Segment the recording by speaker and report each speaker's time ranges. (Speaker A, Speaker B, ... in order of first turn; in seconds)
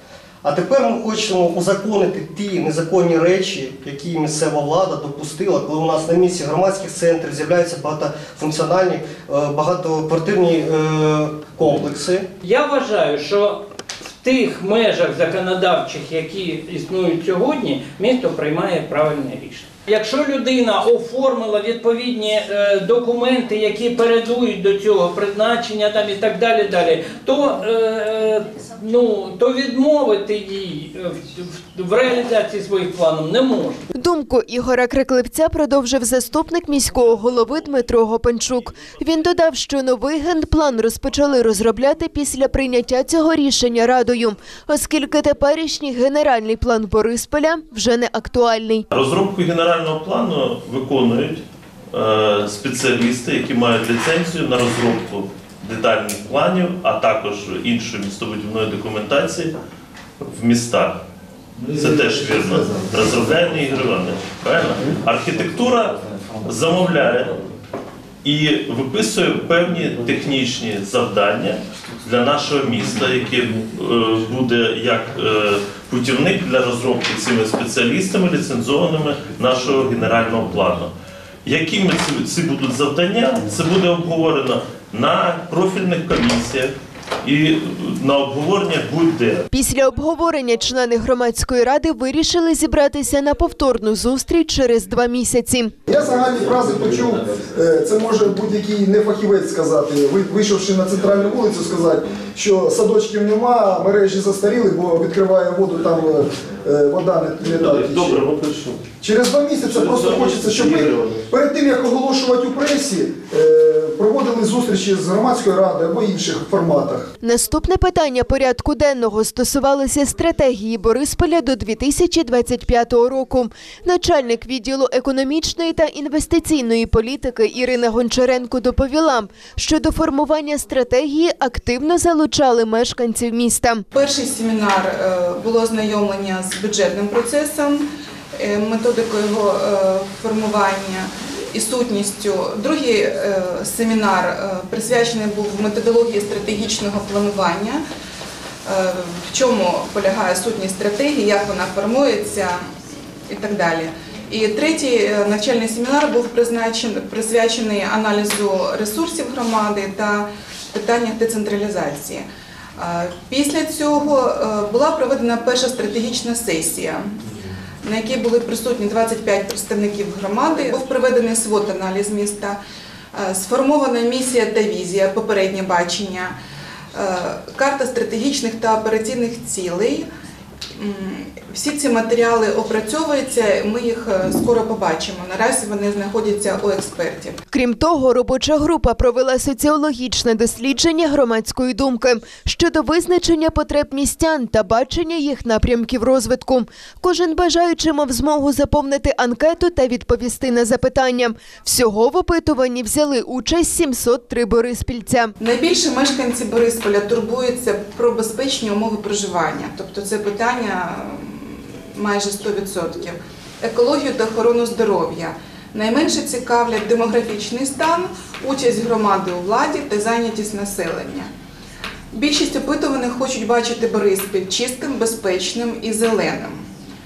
Speaker A: 0.4-12.3
Speaker B: 12.4-33.8
Speaker C: 33.9-48.9, 89.5-95.8, 117.2-133.8, 187.5-205.3
Speaker D: 48.9-59.5, 60.2-61.0, 61.6-67.5, 68.2-80.9, 81.4-89.4, 107.4-108.8, 109.6-111.2
Speaker E: 95.9-108.1, 109.0-117.1
Speaker F: 133.9-147.8, 148.6-167.2, 167.8-172.6, 173.1-176.3, 176.9-180.1, 180.8-187.4, 205.4-221.3, 222.1-226.7